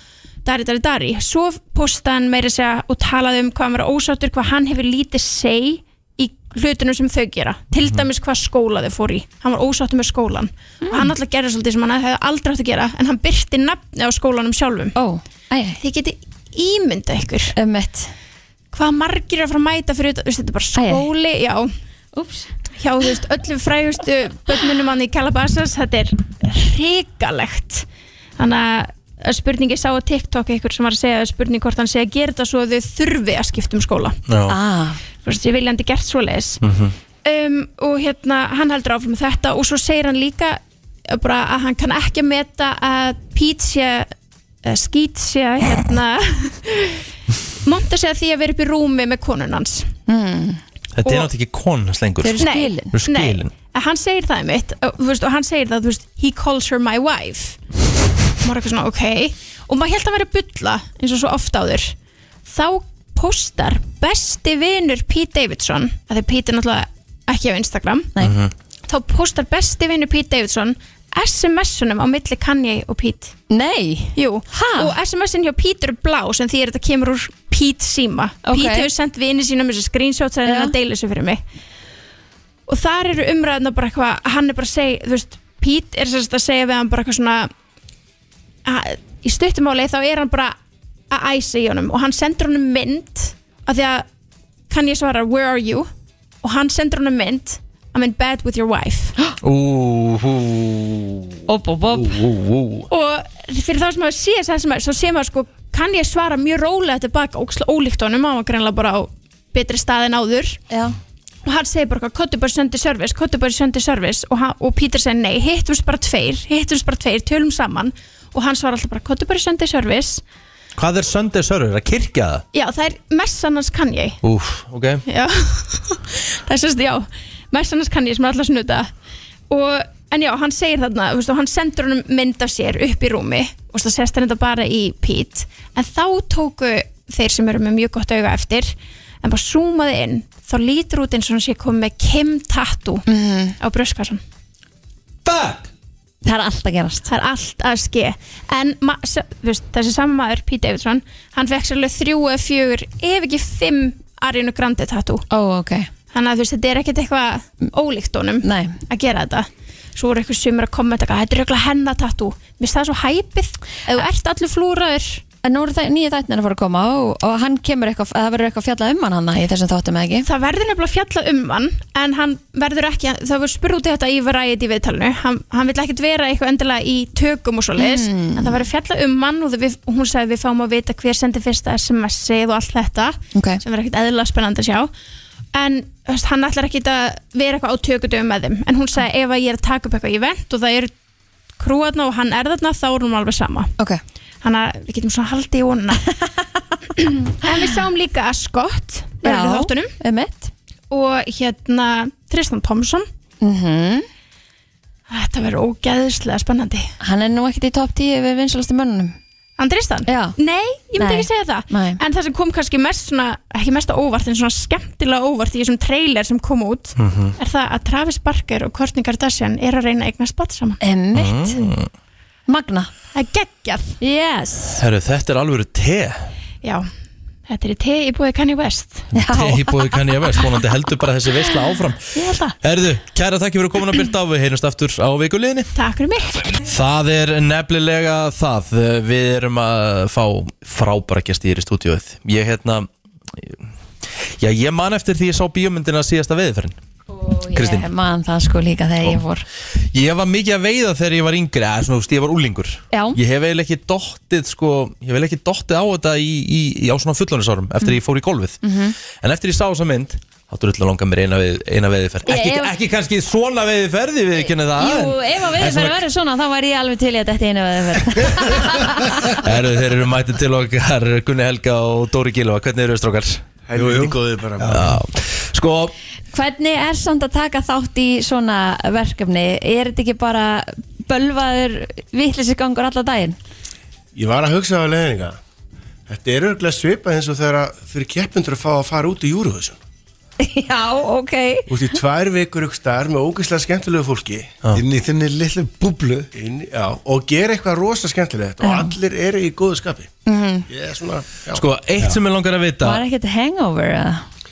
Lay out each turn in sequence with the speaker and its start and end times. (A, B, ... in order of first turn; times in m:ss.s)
0:00.4-0:14.9 A
0:10.8-0:11.1 B
0:14.9-0:15.8 B
0:15.8-0:17.5 A
0:17.6-0:18.1 B
0:18.7-0:21.7 A
0:20.8-0:21.0 B
0:22.1-0:22.5 B
0:22.8-0:27.8 A
0:28.4-0:34.2 A
0:34.3-0:34.6 C
0:34.5-0:35.0 B
0:35.2-0:36.6 A
0:36.6-0:36.9 C
0:37.2-0:44.1 A
0:44.6-0:47.0 A
0:47.6-0:49.9 A
0:50.1-0:50.6 B
0:50.9-0:53.5 C
0:52.2-0:52.9 B
0:52.4-0:57.6 A
0:58.4-1:01.9 A
1:02.4-1:08.1 A
1:08.2-1:08.5 C
1:08.9-1:13.4 A
1:13.5-1:14.9 B
1:14.2-1:21.4 A
1:18.4-1:18.9 B
1:20.5-1:20.7 B
1:22.7-1:27.5 A
1:28.6-1:30.5 A
1:31.1-1:34.0 A
1:34.7-1:35.9 A
1:36.4-1:39.1 A
1:39.4-1:41.4 C
1:41.5-1:42.2 B
1:41.9-1:42.9 C
1:42.9-1:50.6 A
1:50.7-1:51.0 B
1:51.4-2:00.2 A
2:00.8-2:02.4 C
2:02.5-2:04.2 A
2:04.2-2:05.0 C
2:05.0-2:08.9 A
2:09.5-2:23.0 A
2:23.1-2:23.6 B
2:23.6-2:24.2 A
2:25.2-2:25.7 C
2:26.2-2:27.1 B
2:27.1-2:35.2 A
2:35.3-2:35.9 B
2:36.1-2:45.2 A
2:38.4-2:38.8 B
2:45.4-2:50.3 B
2:50.2-3:04.9 A
2:57.8-2:58.6 B
3:03.3-3:03.6 B
3:05.5-3:10.9 A
3:11.6-3:13.7 A
3:14.4-3:16.0 A
3:17.0-3:19.9 A
3:19.2-3:20.5 B
3:20.9-3:23.0 A
3:23.4-3:24.0 B
3:25.1-3:26.9 A
3:27.0-3:29.2 B
3:29.6-3:40.8 A
3:30.1-3:30.4 B
3:31.0-3:32.0 B
3:37.0-3:37.3 C
3:40.8-3:41.7 B
3:41.1-3:41.9 C
3:42.5-3:42.9 B
3:43.1-3:44.0 A
3:44.0-3:44.8 B
3:44.8-3:46.3 C
3:47.5-3:49.1 A
3:49.1-3:52.0 C
3:49.1-3:50.0 B
3:52.1-3:52.6 A
3:52.6-3:55.7 C
3:55.7-3:56.6 A
3:56.7-4:03.6 C
4:04.4-4:06.8 C
4:07.1-4:09.4 B
4:07.5-4:07.9 C
4:09.9-4:18.6 C
4:12.9-4:13.2 B
4:18.6-4:19.0 B
4:19.2-4:26.0 C
4:22.2-4:22.7 B
4:24.4-4:29.2 B
4:29.3-4:33.4 C
4:33.7-4:34.8 D
4:33.8-4:35.0 E
4:34.7-4:35.9 C
4:36.3-4:43.4 B
4:44.1-4:45.4 D
4:46.1-4:49.8 D
4:50.4-4:51.7 B
4:51.7-4:54.5 D
4:54.7-4:56.3 E
4:56.3-5:00.1 D
4:58.6-4:59.0 B
5:00.2-5:00.7 B
5:00.7-5:01.6 D
5:01.5-5:03.0 C
5:02.8-5:04.2 B